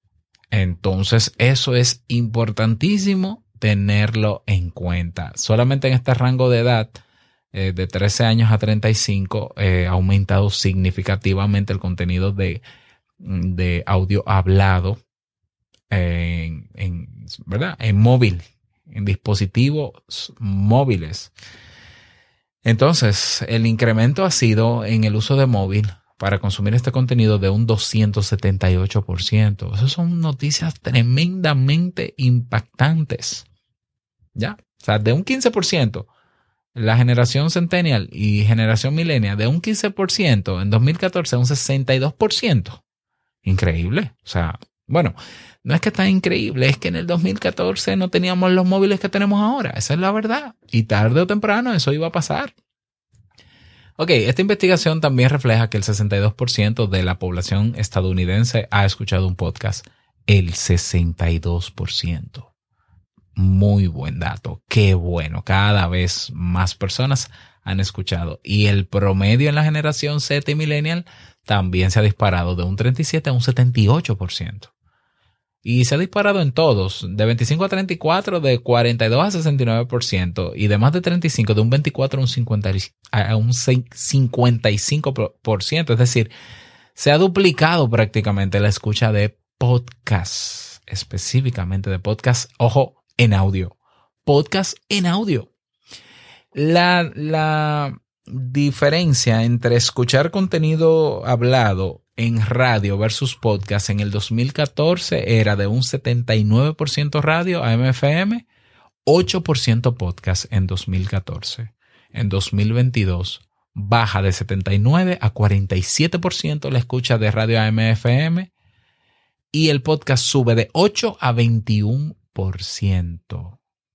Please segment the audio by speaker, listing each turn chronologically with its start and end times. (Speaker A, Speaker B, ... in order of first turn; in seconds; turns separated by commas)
Speaker A: 0.5-7.0, Speaker A: 7.5-12.6, Speaker A: 13.2-15.0, Speaker A: 15.9-21.3, Speaker A: 22.6-33.5, Speaker A: 34.4-36.1, Speaker A: 36.8-42.8, Speaker A: 43.4-52.5, Speaker A: 54.0-62.5, Speaker A: 63.4-74.7, Speaker A: 75.6-86.3, Speaker A: 87.0-95.5, Speaker A: 96.5-108.5, Speaker A: 109.0-118.5, Speaker A: 119.5-123.6